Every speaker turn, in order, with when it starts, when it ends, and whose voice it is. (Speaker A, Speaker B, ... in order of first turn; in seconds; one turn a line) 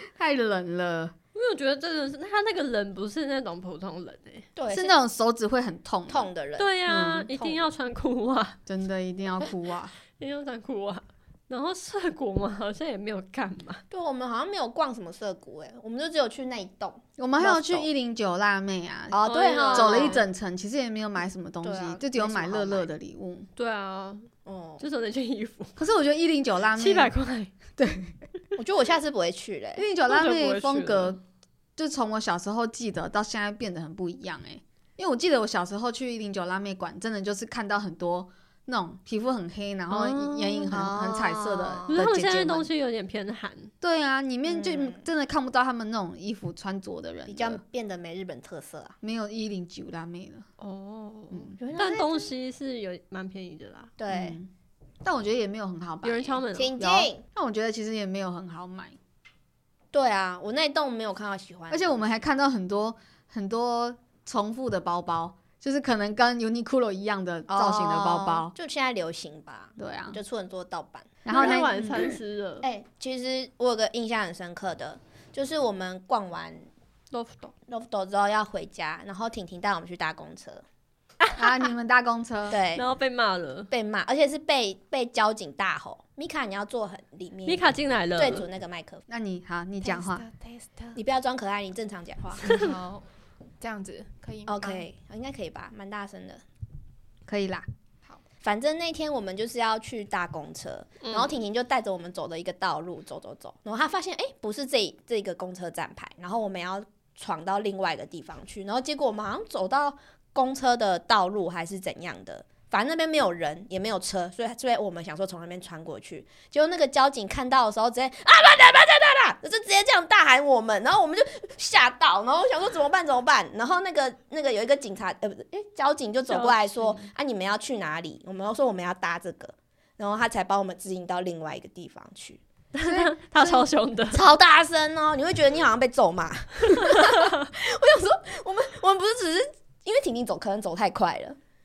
Speaker A: 0.2-1.1
Speaker B: 1.3-4.5
Speaker C: 4.5-5.0
Speaker A: 4.7-7.3
Speaker C: 6.1-6.8
Speaker B: 6.6-8.6
Speaker C: 7.3-7.7
Speaker A: 8.7-9.9
Speaker B: 10.0-13.8
Speaker C: 13.9-17.9
Speaker A: 17.2-23.5
Speaker C: 19.1-20.2
Speaker B: 19.2-20.2
Speaker C: 21.6-22.9
Speaker B: 23.6-24.3
Speaker C: 24.5-24.8
Speaker B: 24.8-25.7
Speaker A: 25.8-27.1
Speaker B: 26.8-27.5
Speaker A: 27.8-28.1
Speaker C: 28.6-29.8
Speaker A: 29.8-31.2
Speaker B: 30.0-31.2
Speaker A: 31.8-42.7
Speaker B: 39.9-40.7
Speaker C: 40.7-42.1
Speaker B: 41.9-43.7
Speaker A: 43.8-47.6
Speaker C: 44.5-45.0
Speaker C: 47.3-49.0
Speaker A: 49.0-50.5
Speaker B: 50.6-53.9
Speaker A: 51.3-51.6
Speaker C: 51.6-52.3
Speaker C: 54.0-54.4
Speaker A: 54.1-54.5
Speaker A: 55.0-59.0
Speaker B: 56.0-56.8
Speaker C: 56.5-57.3
Speaker C: 59.9-62.1
Speaker A: 61.7-68.5
Speaker C: 67.5-76.7
Speaker A: 69.8-70.2
Speaker A: 71.2-72.1
Speaker B: 71.3-72.7
Speaker B: 77.1-77.5
Speaker C: 77.7-80.6
Speaker B: 81.2-81.6
Speaker A: 81.4-82.6
Speaker C: 82.5-82.8
Speaker B: 82.7-83.7
Speaker C: 83.7-89.0
Speaker B: 87.5-88.5
Speaker A: 89.1-90.3
Speaker D: 90.3-91.0
Speaker C: 91.0-92.5
Speaker D: 92.4-93.0
Speaker D: 93.6-94.9
Speaker C: 94.5-96.4
Speaker A: 97.3-97.7
Speaker C: 98.4-132.4
Speaker B: 101.0-101.3
Speaker B: 126.3-127.1
Speaker B: 132.7-134.2
Speaker A: 132.9-133.7
Speaker C: 134.1-141.4